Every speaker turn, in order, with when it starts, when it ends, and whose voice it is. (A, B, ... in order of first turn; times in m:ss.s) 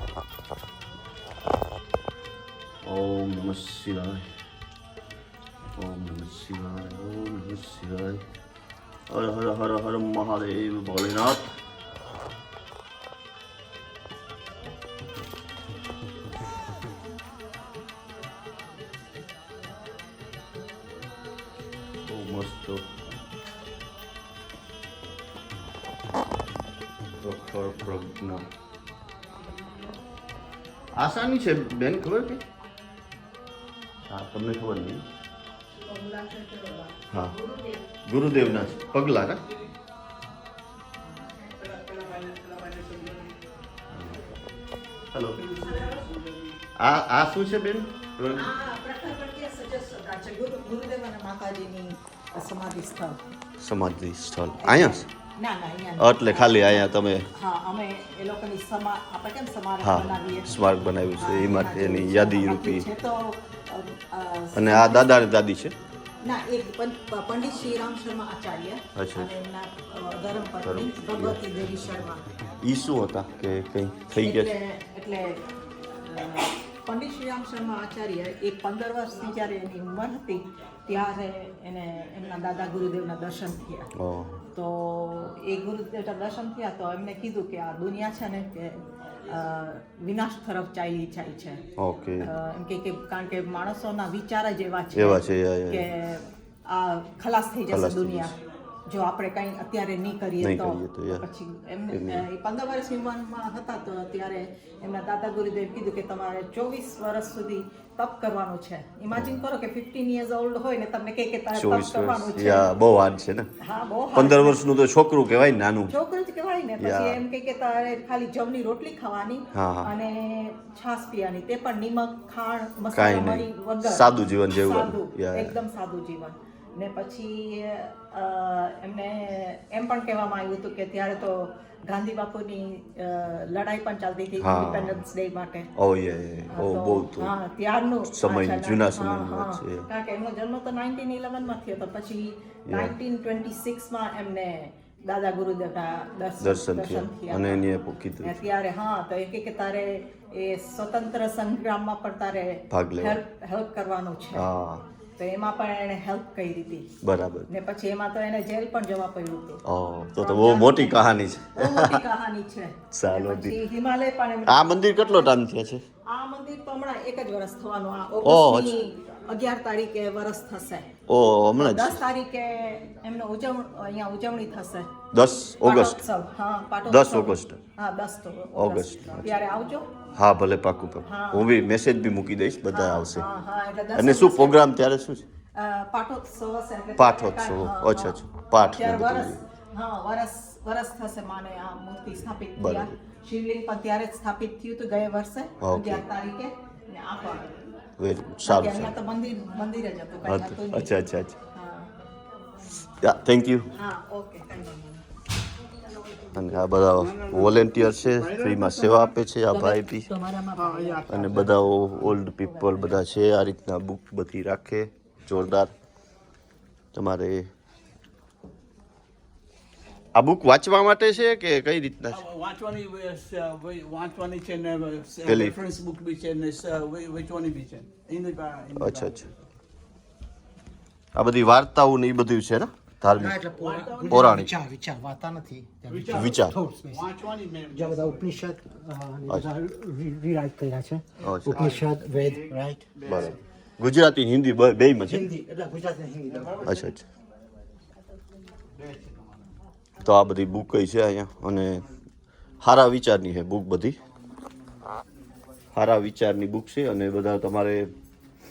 0:02.8-0:04.3 A
0:05.8-0:08.2 A
0:09.1-0:11.5 A
0:22.0-0:23.1 A
0:27.2-0:28.4 A
0:30.9-0:32.4 A
0:34.1-0:35.0 A
0:35.7-0:37.9 B
0:37.1-0:37.3 A
0:38.0-0:39.4 A
0:41.6-0:43.4 C
0:43.9-0:44.3 A
0:45.1-0:45.6 A
0:45.4-0:46.6 C
0:45.6-0:46.1 B
0:46.8-0:48.5 A
0:48.3-0:53.2 B
0:53.6-0:55.1 A
0:54.6-1:05.2 B
0:56.0-0:57.3 A
0:59.8-1:02.8 A
1:04.5-1:05.7 A
1:06.2-1:12.2 B
1:08.9-1:09.3 A
1:10.6-1:11.4 A
1:12.6-1:14.5 A
1:14.1-1:15.4 B
1:16.0-1:23.9 B
1:24.0-1:24.4 A
1:24.5-1:31.6 B
1:31.8-1:32.3 A
1:32.2-1:52.7 B
1:34.9-1:35.9 A
1:37.7-1:38.3 A
1:40.4-1:41.2 A
1:41.9-1:42.2 A
1:49.1-1:49.4 A
1:51.5-1:53.5 A
1:53.6-1:54.6 B
1:54.1-1:55.9 A
1:55.9-2:15.7 B
1:56.8-1:57.2 A
1:59.5-1:59.9 A
2:02.9-2:05.6 A
2:14.4-2:15.0 A
2:15.8-2:17.3 A
2:16.5-2:27.6 B
2:18.1-2:19.9 A
2:22.7-2:23.0 A
2:26.4-2:28.4 A
2:28.2-2:34.5 B
2:32.7-2:33.2 A
2:34.3-2:34.8 A
2:35.2-2:36.9 B
2:37.0-2:37.5 A
2:37.5-2:39.6 B
2:39.6-2:42.0 A
2:40.2-2:45.4 B
2:42.9-2:43.6 A
2:44.5-2:45.8 A
2:46.0-2:50.9 B
2:48.2-2:48.8 A
2:51.1-2:52.0 A
2:51.6-2:54.9 B
2:55.1-2:56.0 A
2:55.6-2:59.9 B
2:56.9-2:57.6 A
2:58.6-2:59.3 A
3:00.1-3:03.2 A
3:01.0-3:01.5 B
3:02.7-3:04.6 B
3:03.9-3:05.2 A
3:05.5-3:17.5 B
3:07.0-3:09.4 A
3:12.6-3:12.9 A
3:15.6-3:16.0 A
3:18.0-3:19.0 A
3:18.4-3:21.0 B
3:20.2-3:21.4 A
3:21.5-3:21.9 B
3:23.0-3:23.7 A
3:23.7-3:25.0 B
3:26.3-3:30.1 A
3:27.0-3:29.1 C
3:29.5-3:31.1 B
3:30.5-3:31.6 C
3:31.1-3:35.7 A
3:32.4-3:33.0 B
3:36.9-3:37.5 A
3:40.1-3:42.2 A
3:42.1-3:49.2 C
3:45.2-3:45.6 A
3:48.8-3:49.3 A
3:51.1-3:53.4 A
3:53.2-3:57.0 D
3:53.6-3:54.4 C
3:54.1-3:54.5 A
3:55.9-3:58.3 C
3:56.1-3:56.6 A
3:57.7-4:03.3 D
4:01.2-4:01.8 A
4:01.4-4:03.4 C
4:03.0-4:05.3 A
4:05.1-4:06.8 D
4:06.3-4:06.8 C
4:06.6-4:07.0 A
4:08.7-4:09.5 C
4:10.0-4:11.9 A
4:12.6-4:14.0 A
4:15.7-4:17.9 A